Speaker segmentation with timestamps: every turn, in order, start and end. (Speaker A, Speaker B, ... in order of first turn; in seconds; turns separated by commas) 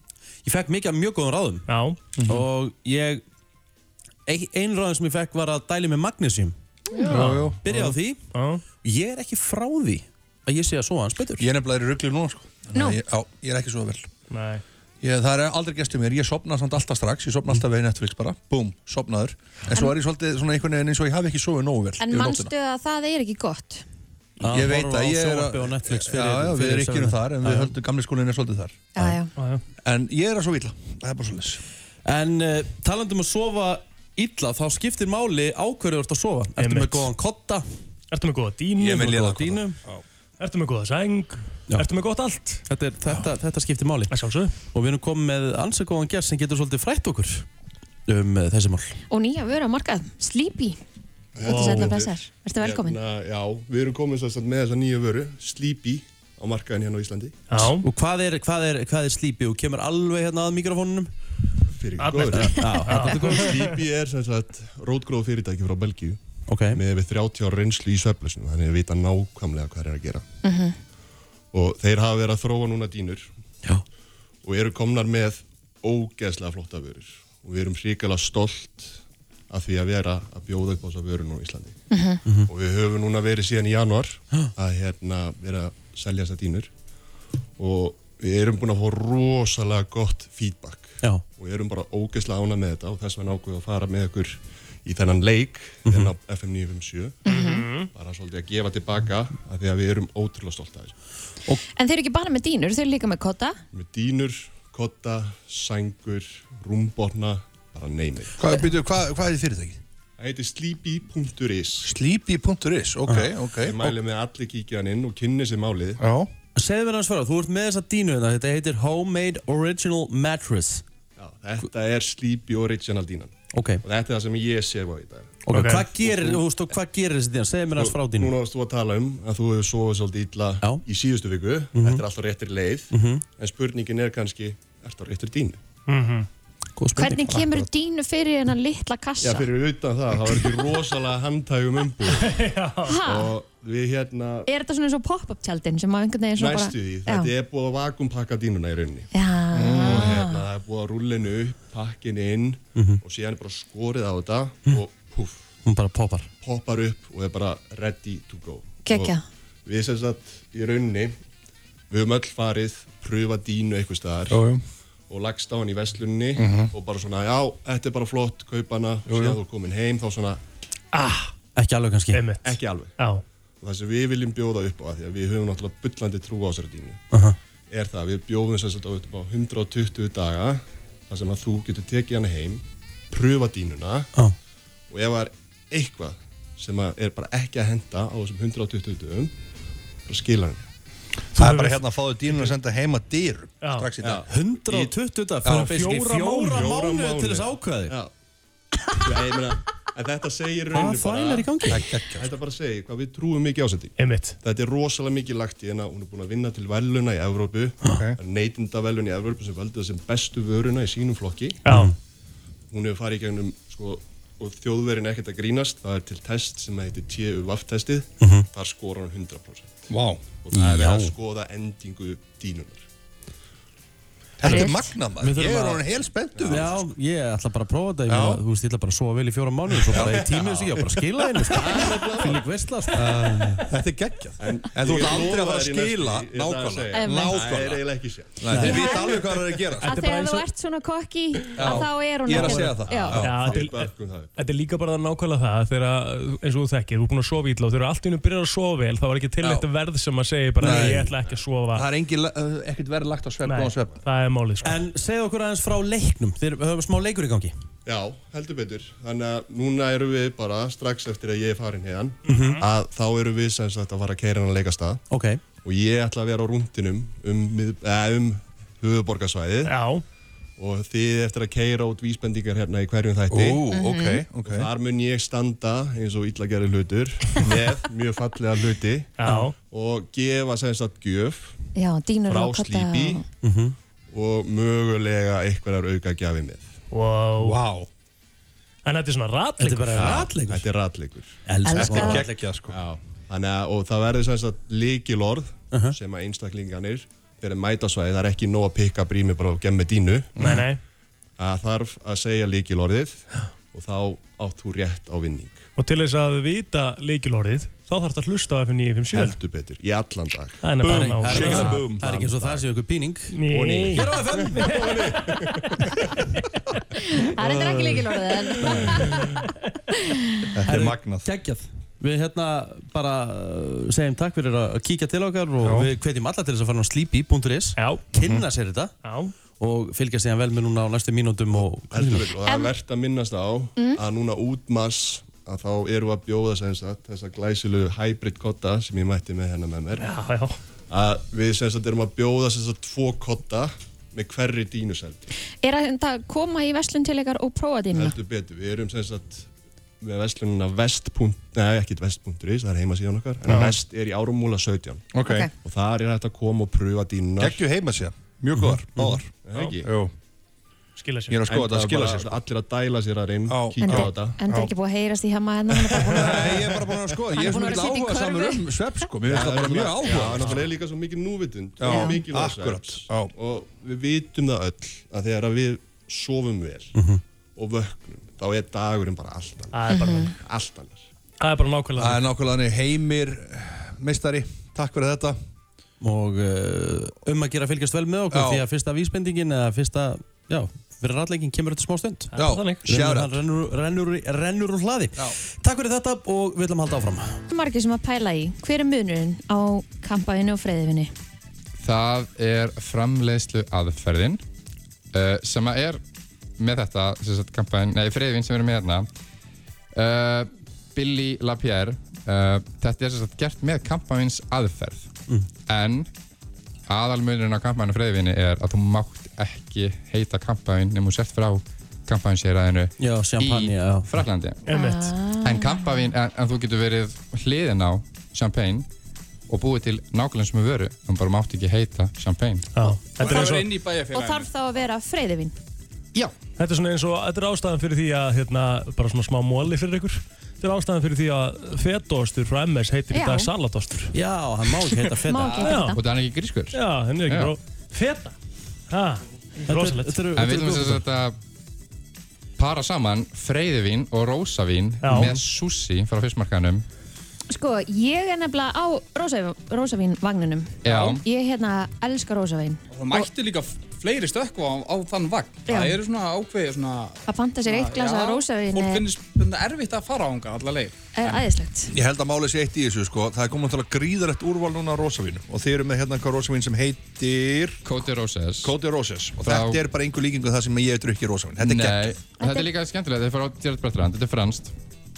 Speaker A: 0.5-1.7, Speaker B: 1.7-2.0, Speaker C: 2.2-2.4, Speaker A: 2.3-3.2, Speaker A: 4.3-6.5, Speaker C: 7.0-7.9, Speaker B: 7.1-8.6, Speaker A: 7.6-8.2, Speaker A: 8.8-11.4, Speaker C: 11.4-14.1, Speaker D: 12.7-13.0, Speaker B: 14.3-14.6, Speaker C: 15.0-22.5, Speaker D: 22.0-23.8, Speaker A: 24.4-27.7, Speaker C: 24.4-28.8, Speaker D: 28.9-29.3, Speaker B: 29.4-29.6, Speaker C: 29.8-31.6, Speaker A: 32.0-37.6, Speaker B: 36.6-37.1, Speaker B: 38.1-39.1, Speaker C: 38.8-40.0, Speaker A: 39.0-39.8, Speaker B: 40.4-42.6, Speaker A: 42.7-44.1, Speaker B: 44.1-44.5, Speaker A: 44.7-47.5, Speaker A: 48.1-48.9, Speaker D: 49.1-50.8, Speaker E: 51.4-57.4, Speaker D: 51.4-53.0, Speaker B: 51.4-52.0, Speaker B: 57.5-57.9, Speaker A: 57.6-61.1, Speaker E: 61.7-62.6, Speaker B: 62.0-63.7, Speaker A: 62.3-63.6, Speaker E: 63.3-66.2, Speaker A: 66.5-66.8, Speaker E: 66.7-70.2, Speaker D: 70.4-70.8, Speaker E: 71.5-73.3, Speaker E: 74.4-79.0, Speaker E: 79.5-81.8, Speaker D: 81.9-82.2, Speaker E: 82.5-86.7, Speaker E: 87.6-97.2, Speaker A: 95.9-96.1, Speaker D: 97.3-97.7, Speaker B: 97.3-97.9, Speaker E: 97.9-100.9, Speaker D: 101.8-103.6, Speaker E: 103.7-108.4, Speaker C: 108.4-109.8, Speaker E: 110.2-111.9, Speaker C: 111.8-114.0, Speaker A: 113.1-113.3, Speaker E: 113.5-116.0, Speaker C: 116.0-116.3, Speaker A: 116.6-120.8, Speaker E: 121.2-125.4, Speaker A: 123.5-123.8, Speaker A: 125.5-128.3, Speaker B: 125.5-125.9, Speaker E: 126.0-126.4, Speaker E: 127.7-135.6, Speaker A: 131.8-132.0, Speaker A: 132.9-133.2, Speaker B: 135.9-136.3, Speaker A: 136.8-137.4, Speaker D: 137.0-139.5, Speaker E: 139.2-142.4, Speaker B: 142.2-143.0, Speaker D: 142.8-143.3, Speaker E: 143.0-144.5, Speaker D: 144.5-147.3, Speaker E: 146.4-149.1, Speaker D: 149.1-150.4, Speaker C: 149.5-150.1, Speaker E: 149.7-155.5, Speaker A: 152.8-153.0, Speaker A: 155.7-156.3, Speaker E: 156.4-161.1, Speaker D: 158.8-159.2, Speaker E: 161.9-164.4, Speaker C: 164.3-164.6, Speaker E: 165.1-170.4, Speaker C: 166.4-166.7, Speaker C: 169.1-169.4, Speaker B: 170.9-171.3, Speaker A: 171.6-172.2, Speaker B: 172.1-173.2, Speaker E: 172.4-172.9, Speaker E: 173.6-177.0, Speaker E: 177.7-184.1, Speaker E: 184.9-189.3, Speaker E: 190.1-190.7, Speaker B: 191.4-191.8, Speaker C: 191.4-194.3, Speaker B: 193.6-193.9, Speaker E: 194.0-194.9, Speaker A: 194.3-197.9, Speaker C: 195.4-195.8, Speaker B: 195.6-196.7, Speaker E: 196.5-198.1, Speaker E: 199.0-211.6, Speaker A: 200.7-201.9, Speaker C: 201.7-202.3, Speaker B: 204.0-204.4, Speaker C: 207.8-208.2, Speaker B: 211.7-211.9, Speaker A: 211.7-211.9, Speaker E: 212.7-222.9, Speaker A: 218.2-218.5, Speaker C: 219.9-220.4, Speaker A: 220.5-221.1, Speaker C: 224.4-226.9, Speaker D: 224.4-224.9, Speaker A: 225.2-225.9, Speaker A: 226.4-233.7, Speaker C: 228.1-228.4, Speaker C: 229.9-232.2, Speaker E: 231.6-232.4, Speaker C: 232.9-237.9, Speaker E: 234.4-238.5, Speaker D: 236.9-237.5, Speaker C: 238.4-239.9, Speaker A: 238.5-238.8, Speaker D: 238.6-239.2, Speaker D: 239.8-243.2, Speaker B: 239.8-240.5, Speaker C: 241.6-243.6, Speaker B: 242.3-251.9, Speaker E: 242.9-244.4, Speaker C: 250.6-251.1, Speaker C: 251.7-254.0, Speaker B: 253.4-254.8, Speaker A: 254.6-257.5, Speaker E: 257.9-265.0, Speaker B: 262.3-262.6, Speaker A: 262.3-262.6, Speaker A: 265.1-265.4, Speaker E: 265.6-269.8, Speaker B: 269.7-270.0, Speaker E: 270.6-273.7, Speaker C: 273.3-274.7, Speaker D: 273.7-274.2, Speaker E: 274.4-281.6, Speaker B: 279.2-279.6, Speaker D: 281.8-283.2, Speaker E: 282.3-283.2, Speaker A: 283.4-283.8, Speaker E: 284.1-286.7, Speaker B: 286.9-287.6, Speaker C: 287.4-287.9, Speaker B: 288.9-290.3, Speaker A: 289.6-290.6, Speaker E: 290.0-291.4, Speaker A: 291.5-292.4, Speaker D: 291.6-292.2, Speaker C: 291.7-292.8, Speaker E: 292.7-300.4, Speaker B: 300.4-300.8, Speaker E: 301.4-305.7, Speaker B: 305.8-309.4, Speaker E: 309.1-310.6, Speaker B: 310.6-311.8, Speaker C: 310.8-312.2, Speaker A: 310.9-315.2, Speaker E: 311.7-312.6, Speaker B: 313.3-315.8, Speaker D: 317.1-319.4, Speaker A: 318.6-318.9, Speaker D: 320.0-320.4, Speaker C: 320.6-321.3, Speaker A: 320.7-328.9, Speaker B: 327.8-328.1, Speaker C: 328.2-328.5, Speaker B: 329.0-329.3, Speaker A: 329.6-332.3, Speaker E: 331.6-340.1, Speaker D: 332.5-332.7, Speaker D: 333.8-334.0, Speaker B: 340.0-340.6, Speaker E: 340.9-345.3, Speaker D: 345.6-348.2, Speaker E: 347.9-349.5, Speaker E: 350.0-357.6, Speaker B: 353.5-353.7, Speaker C: 355.1-355.5, Speaker D: 355.2-355.5, Speaker C: 357.4-360.1, Speaker A: 358.9-359.2, Speaker E: 359.4-359.9, Speaker B: 361.0-361.4, Speaker C: 361.3-362.4, Speaker E: 361.5-364.4, Speaker C: 363.5-364.7, Speaker D: 363.8-366.8, Speaker C: 365.9-370.7, Speaker D: 367.3-368.7, Speaker E: 369.2-376.9, Speaker C: 371.8-373.3, Speaker D: 371.9-372.2, Speaker A: 376.9-377.2, Speaker E: 377.6-381.1, Speaker B: 379.7-380.4, Speaker D: 379.9-380.3, Speaker B: 381.4-382.2, Speaker C: 382.0-385.4, Speaker A: 386.0-392.3, Speaker C: 388.3-388.6, Speaker B: 392.3-392.8, Speaker C: 392.3-393.4, Speaker A: 392.9-397.4, Speaker D: 397.5-401.1, Speaker F: 401.8-404.4, Speaker F: 405.1-406.0, Speaker F: 406.6-409.1, Speaker F: 409.9-415.1, Speaker F: 415.7-416.1, Speaker F: 416.9-424.6, Speaker A: 423.0-424.1, Speaker B: 424.7-425.1, Speaker D: 424.7-425.9, Speaker F: 425.4-428.9, Speaker F: 429.5-432.7, Speaker B: 432.8-433.7, Speaker D: 432.8-433.6, Speaker G: 433.2-434.5, Speaker D: 434.1-435.6, Speaker B: 436.6-444.1, Speaker D: 443.1-443.5, Speaker A: 444.1-445.8, Speaker D: 445.3-446.0, Speaker B: 445.6-446.0, Speaker F: 445.9-447.6, Speaker B: 446.7-448.4, Speaker B: 448.9-450.3, Speaker A: 449.6-451.0, Speaker F: 450.4-451.4, Speaker F: 452.6-456.9, Speaker B: 455.0-455.3, Speaker D: 457.5-463.3, Speaker F: 460.8-461.2, Speaker G: 462.9-471.1, Speaker D: 465.7-466.0, Speaker D: 467.3-469.1, Speaker D: 471.1-471.9, Speaker C: 471.9-477.8, Speaker F: 477.9-478.8, Speaker C: 478.6-482.2, Speaker F: 479.4-479.8, Speaker F: 481.6-484.7, Speaker D: 482.4-482.7